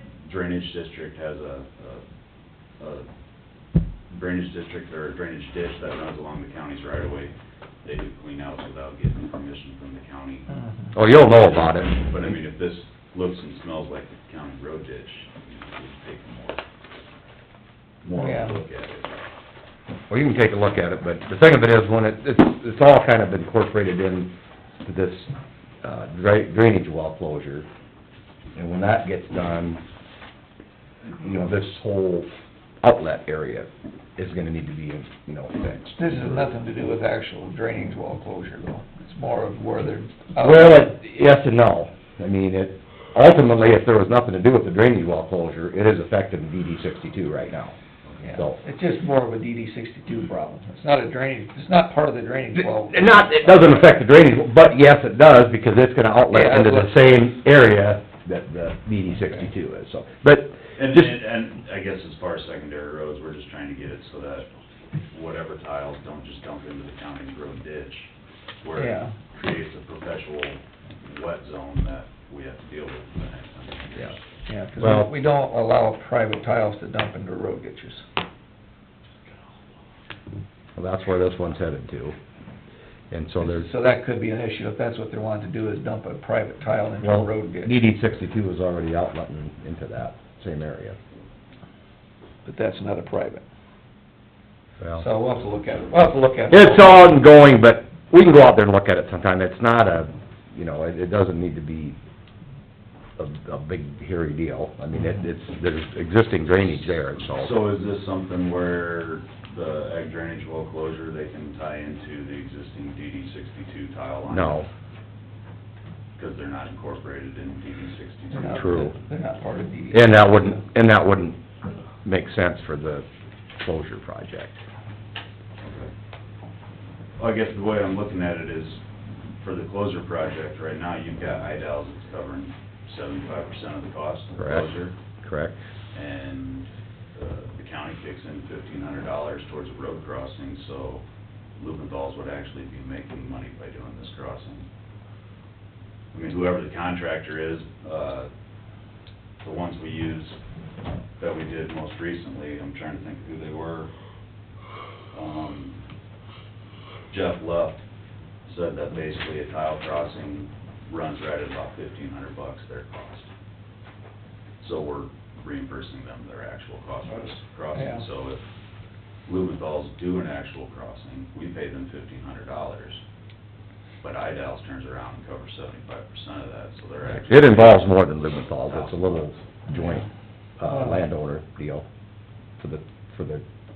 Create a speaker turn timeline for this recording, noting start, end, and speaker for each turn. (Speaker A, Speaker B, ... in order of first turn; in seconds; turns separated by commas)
Speaker A: 0.2-2.0, Speaker A: 2.8-3.1, Speaker A: 4.1-10.5, Speaker B: 10.6-10.9, Speaker C: 10.9-12.0, Speaker A: 11.1-16.6, Speaker A: 18.0-19.2, Speaker B: 18.1-18.6, Speaker C: 20.1-25.3, Speaker C: 25.8-27.7, Speaker C: 28.6-29.8, Speaker C: 31.2-32.3, Speaker C: 32.8-36.4, Speaker B: 36.0-40.9, Speaker C: 40.4-47.8, Speaker B: 48.2-53.9, Speaker C: 48.3-48.6, Speaker C: 52.6-61.1, Speaker B: 56.3-56.9, Speaker A: 60.8-64.5, Speaker A: 65.1-68.1, Speaker A: 68.6-74.2, Speaker B: 68.8-69.1, Speaker B: 74.0-78.0, Speaker C: 74.8-75.1, Speaker C: 80.8-82.2, Speaker C: 83.1-83.7, Speaker B: 83.4-87.8, Speaker C: 87.0-91.0, Speaker B: 92.5-93.4, Speaker C: 94.8-95.1, Speaker B: 95.0-97.2, Speaker C: 96.5-102.0, Speaker C: 103.2-107.6, Speaker A: 107.3-114.6, Speaker C: 114.3-114.7, Speaker A: 116.2-118.9, Speaker B: 118.4-120.6, Speaker C: 118.4-119.0, Speaker C: 119.9-121.4, Speaker C: 122.0-123.1, Speaker C: 123.6-124.6, Speaker A: 125.6-125.9, Speaker A: 127.2-128.8, Speaker A: 129.4-134.9, Speaker C: 134.4-134.7, Speaker C: 135.2-135.6, Speaker A: 135.9-141.0, Speaker A: 141.6-144.7, Speaker A: 146.1-148.3, Speaker A: 149.4-150.4, Speaker A: 151.2-153.9, Speaker A: 155.1-155.8, Speaker A: 157.1-157.8, Speaker A: 158.5-163.3, Speaker A: 164.6-168.4, Speaker B: 167.7-168.1, Speaker A: 169.3-173.0, Speaker A: 174.0-177.9, Speaker C: 177.2-180.1, Speaker A: 178.5-179.3, Speaker C: 180.6-181.9, Speaker B: 180.7-181.0, Speaker C: 182.6-183.4